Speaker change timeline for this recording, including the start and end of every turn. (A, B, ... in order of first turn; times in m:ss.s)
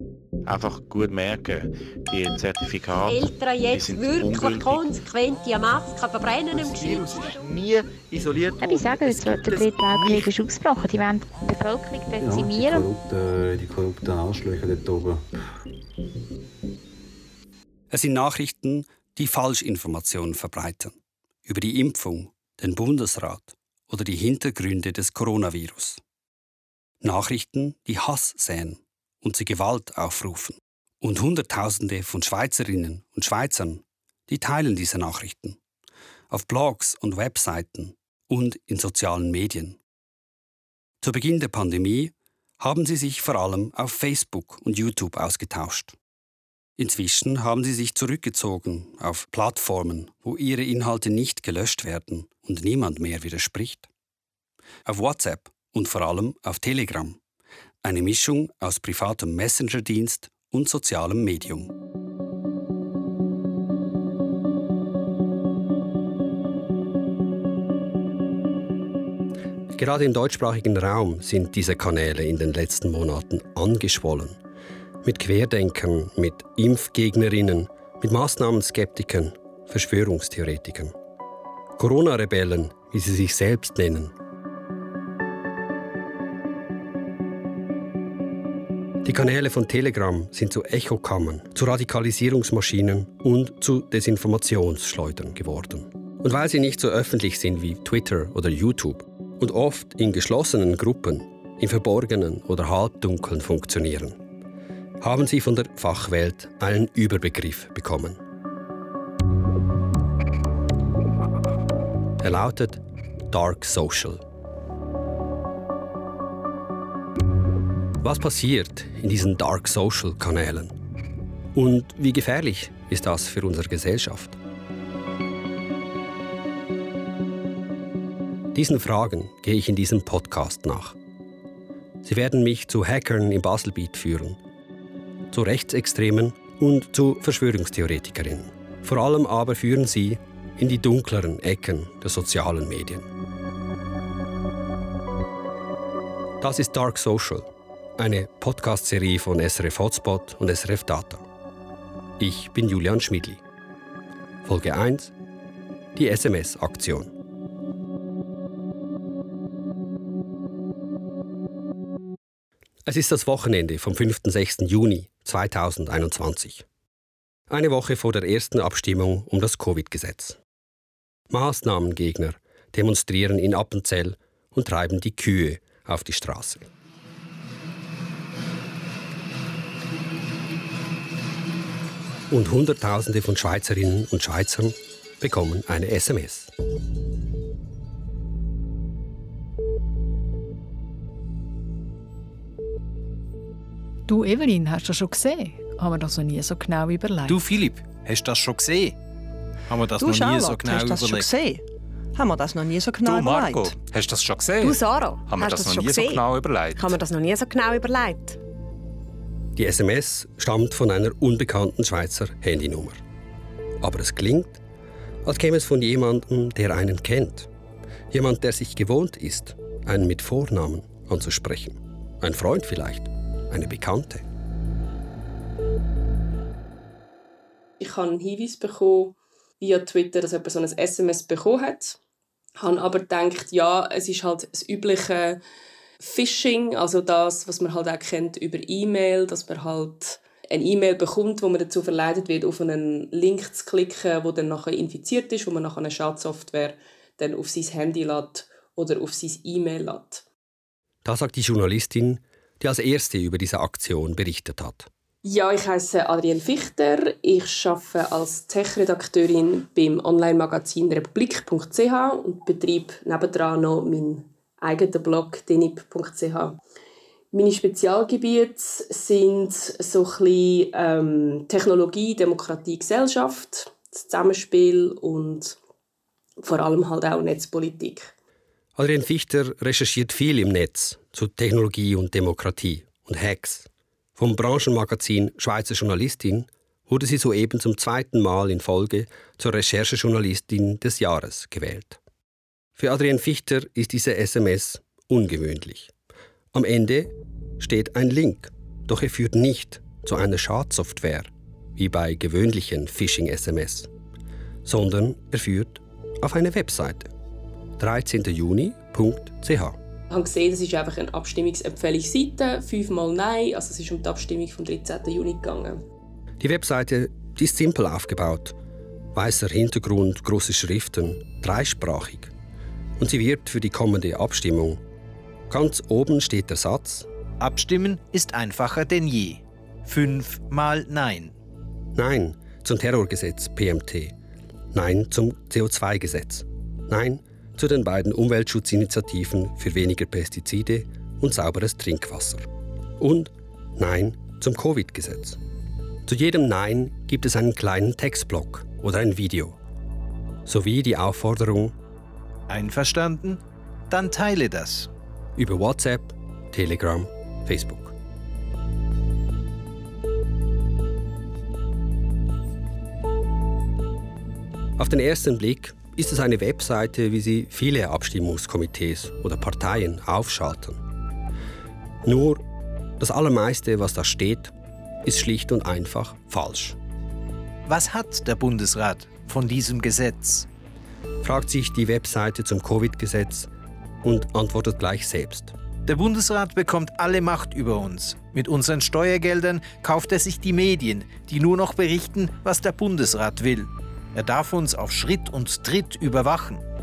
0:00.4-0:05.0 A
0:03.0-0:07.5 B
0:06.5-0:10.3 A
0:08.6-0:12.9 C
0:12.2-0:15.3 D
0:17.9-0:21.0 E
0:21.5-0:26.0 E
0:27.0-0:35.6 E
0:36.3-0:39.8 E
0:41.0-0:46.0 E
0:46.8-0:53.9 E
0:54.8-0:57.2 E
0:57.8-1:01.7 E
1:09.7-1:14.4 E
1:15.0-1:20.9 E
1:21.8-1:24.1 E
1:29.0-1:44.2 E
1:45.0-1:48.2 E
1:52.2-1:54.2 E
1:58.0-2:00.8 E
2:01.5-2:04.4 E
2:08.5-2:11.0 E
2:12.0-2:14.4 E
2:15.3-2:23.1 E
2:26.4-2:31.3 E
2:32.2-2:33.4 E
2:34.4-2:35.1 E
2:36.0-2:37.1 E
2:42.9-2:46.7 E
2:47.5-2:50.4 E
2:51.3-2:56.7 E
3:02.3-3:06.5 E
3:14.1-3:17.4 F
3:17.3-3:19.0 G
3:19.7-3:21.3 G
3:20.0-3:21.6 H
3:20.4-3:20.7 I
3:22.2-3:23.7 H
3:22.2-3:23.5 I
3:23.0-3:26.9 J
3:24.6-3:26.2 I
3:26.8-3:28.4 I
3:29.6-3:33.0 E
3:33.8-3:34.6 E
3:35.2-3:37.5 E
3:38.1-3:44.3 E
3:47.8-3:52.0 K
3:52.6-3:55.4 K
3:56.0-4:10.2 K
4:11.0-4:14.9 E
4:15.2-4:26.6 K
4:27.3-4:35.6 K
4:36.4-4:38.1 K
4:38.8-4:52.0 E
4:52.8-4:55.9 E
4:56.5-5:03.9 E
5:04.6-5:07.1 E
5:07.8-5:09.8 E
5:10.1-5:15.8 K
5:16.4-5:18.6 E
5:19.1-5:22.3 E
5:23.0-5:24.8 E
5:25.5-5:27.1 E
5:27.4-5:31.3 G
5:31.9-5:34.2 E
5:34.7-5:45.4 E
5:46.0-5:49.6 E
5:50.5-5:51.8 E
5:52.5-5:54.9 G
5:55.4-5:58.0 E
6:04.8-6:10.8 E
6:12.0-6:12.4 E
6:13.0-6:14.5 E
6:15.0-6:16.8 E
6:17.7-6:20.5 G
6:21.2-6:23.5 E
6:24.0-6:25.5 E
6:25.9-6:36.6 G